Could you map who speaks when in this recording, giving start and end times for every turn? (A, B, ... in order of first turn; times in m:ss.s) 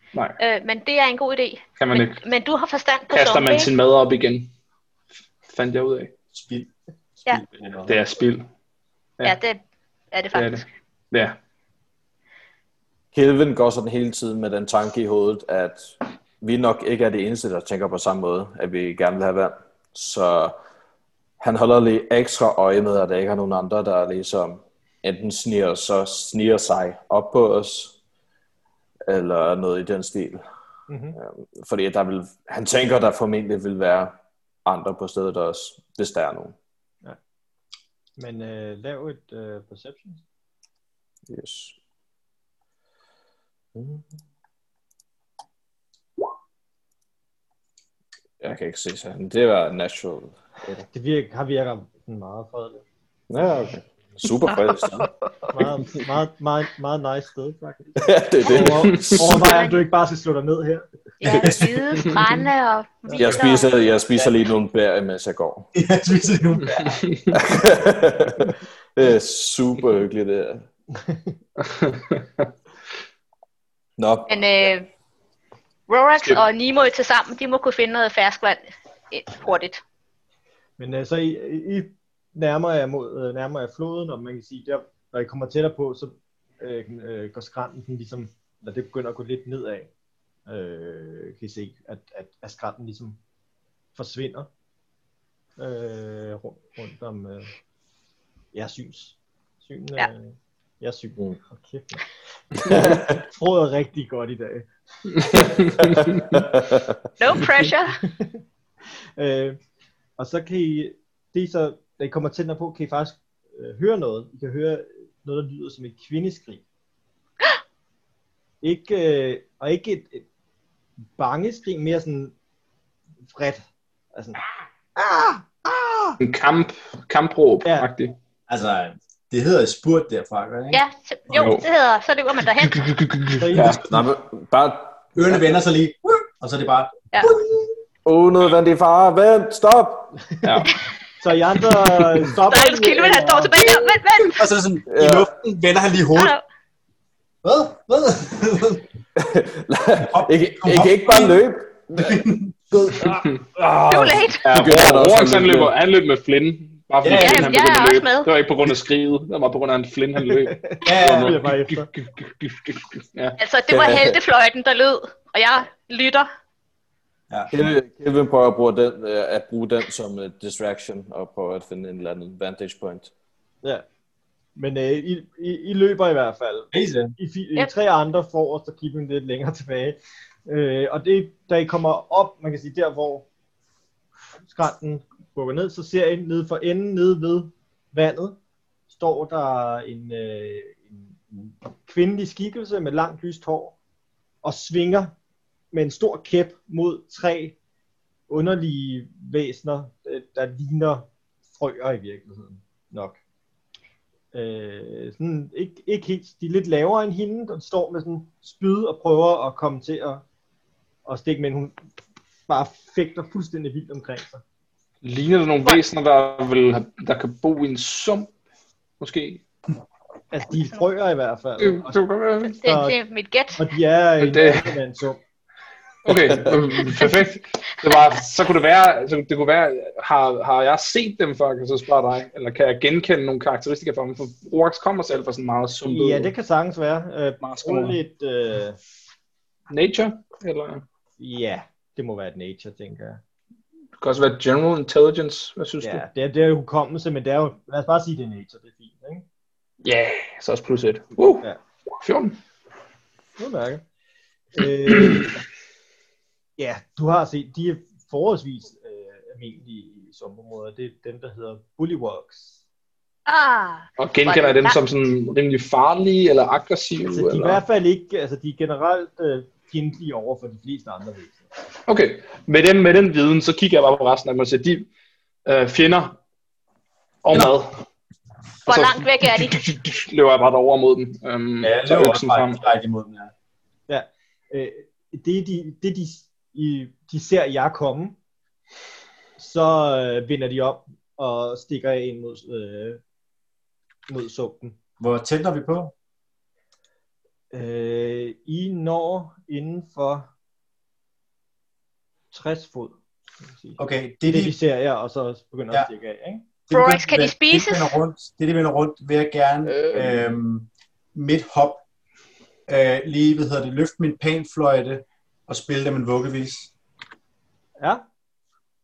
0:00.4-0:03.7 A
0:01.8-0:02.2 B
0:03.1-0:04.5 B
0:05.5-0:06.1 B
0:06.3-0:06.7 C
0:07.2-0:07.9 C
0:07.9-0:08.5 B
0:09.2-0:09.6 A
0:10.1-0:10.6 A
0:10.3-0:11.4 B
0:13.1-0:20.6 D
0:21.4-0:28.0 D
0:29.1-0:30.4 D
0:30.9-0:31.2 E
0:31.2-0:36.6 D
0:38.2-0:40.2 E
0:41.3-0:41.8 D
0:43.8-0:44.0 D
0:48.4-0:50.9 D
0:50.9-0:52.8 E
0:53.3-0:55.1 D
0:54.5-0:55.0 A
0:55.5-1:00.9 E
0:58.0-0:59.6 D
0:59.3-0:59.8 A
1:01.2-1:03.7 A
1:01.2-1:02.0 C
1:03.1-1:03.6 E
1:03.1-1:05.7 D
1:05.7-1:07.1 C
1:06.9-1:07.3 B
1:07.3-1:10.6 D
1:11.0-1:11.3 E
1:11.6-1:12.4 B
1:14.0-1:14.4 D
1:14.3-1:14.9 A
1:15.9-1:19.8 A
1:20.8-1:29.9 E
1:30.5-1:33.2 E
1:34.0-1:34.5 E
1:35.6-1:37.5 E
1:38.5-1:46.4 E
1:42.7-1:43.2 D
1:45.5-1:47.0 D
1:47.2-1:48.0 A
1:48.0-1:48.4 E
1:49.2-1:49.6 E
1:50.2-1:56.6 E
1:58.6-2:00.3 E
2:01.2-2:02.4 E
2:03.3-2:04.4 E
2:05.0-2:06.2 E
2:06.2-2:08.2 B
2:08.5-2:10.8 C
2:10.7-2:12.9 A
2:11.3-2:11.7 B
2:12.6-2:13.8 B
2:13.4-2:13.9 E
2:13.8-2:15.1 D
2:15.2-2:17.7 C
2:18.0-2:20.3 D
2:20.4-2:20.7 E
2:20.4-2:20.8 B
2:21.2-2:23.9 E
2:22.5-2:24.5 A
2:24.2-2:26.4 C
2:24.9-2:25.3 D
2:26.2-2:26.4 A
2:27.4-2:28.9 C
2:29.2-2:32.3 D
2:30.1-2:31.4 C
2:32.0-2:32.6 C
2:32.9-2:35.7 D
2:33.9-2:34.5 A
2:34.4-2:43.4 B
2:37.0-2:37.6 C
2:37.2-2:38.3 A
2:40.3-2:41.9 E
2:40.8-2:41.4 C
2:43.4-2:46.3 A
2:43.7-2:44.2 D
2:47.5-2:53.1 D
2:54.6-3:03.3 E
2:56.7-2:57.1 C
3:04.5-3:08.4 E
3:08.9-3:13.8 E
3:14.4-3:15.1 E
3:15.7-3:17.6 E
3:18.3-3:23.2 E
3:24.3-3:30.2 E
3:31.1-3:31.8 E
3:32.5-3:34.4 E
3:35.0-3:38.3 B
3:39.0-3:39.4 B
3:40.3-3:42.0 E
3:41.6-3:42.6 B
3:42.5-3:43.6 A
3:42.6-3:43.0 E
3:43.6-3:45.2 E
3:44.2-3:44.8 B
3:46.0-3:56.3 B
3:55.9-3:58.8 E
3:57.4-3:58.0 B
3:59.7-4:00.8 B
4:01.2-4:03.2 E
4:04.0-4:06.0 B
4:05.8-4:09.2 E
4:09.8-4:11.5 B
4:12.0-4:12.4 B
4:13.4-4:13.8 E
4:14.5-4:15.4 E
4:14.9-4:15.2 B
4:16.6-4:22.6 E
4:23.3-4:24.8 A
4:24.0-4:27.6 B
4:27.1-4:31.5 E
4:31.9-4:34.9 B
4:35.4-4:36.2 B
4:37.2-4:37.8 B
4:38.7-4:39.6 A
4:38.7-4:42.6 B
4:41.6-4:43.3 C
4:43.9-4:48.2 E
4:49.4-4:53.0 E
4:54.1-4:54.8 E
4:55.0-4:55.9 C
4:57.5-5:00.3 E
5:02.3-5:06.4 E
5:03.8-5:04.6 C
5:06.7-5:11.8 C
5:06.7-5:07.9 A
5:09.7-5:10.2 B
5:12.7-5:16.7 C